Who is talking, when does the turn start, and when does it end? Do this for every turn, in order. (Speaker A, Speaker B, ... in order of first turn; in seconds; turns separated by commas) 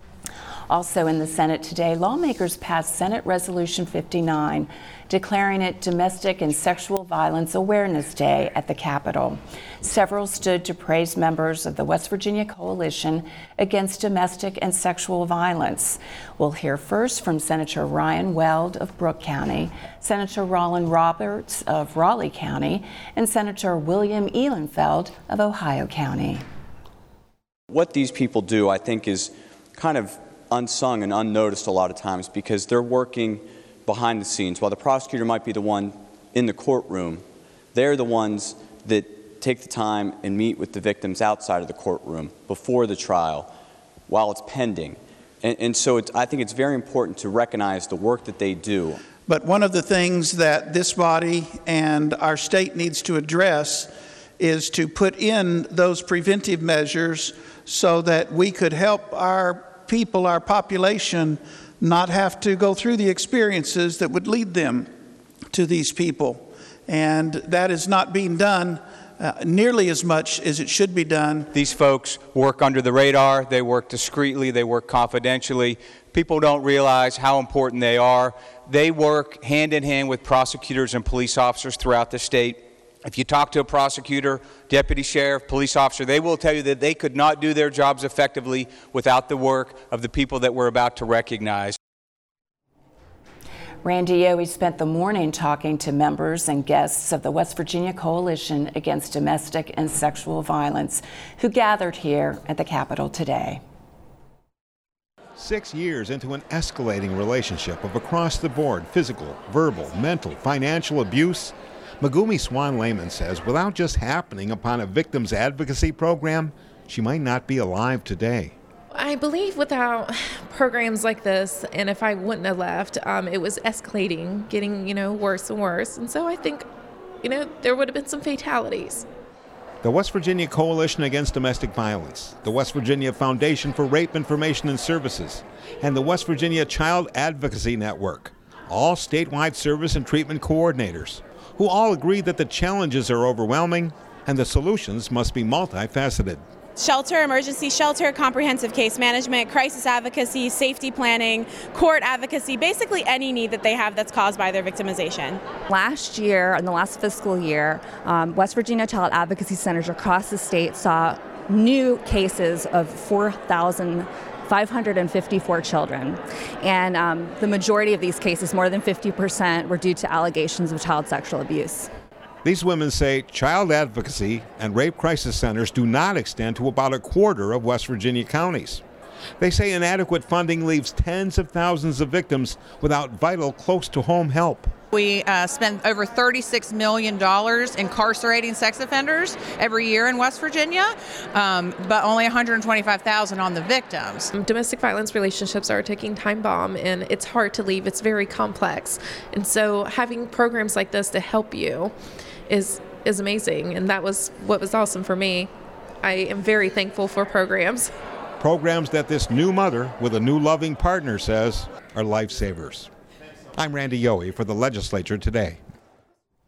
Speaker A: 0.7-26.4, Speaker B: 27.7-43.5, Speaker B: 44.1-49.0, Speaker C: 49.3-64.9, Speaker C: 65.5-71.5, Speaker D: 71.5-91.8, Speaker A: 93.8-103.6, Speaker E: 105.3-118.5, Speaker F: 118.9-126.7, Speaker F: 127.2-129.1, Speaker E: 129.8-146.4, Speaker G: 146.8-155.4, Speaker H: 155.7-171.9, Speaker E: 172.4-178.8, Speaker E: 179.4-184.7, Speaker I: 184.9-194.3, Speaker F: 194.3-201.9, Speaker F: 202.5-205.5, Speaker F: 206.0-207.9, Speaker E: 208.4-212.9, Speaker E: 213.6-215.6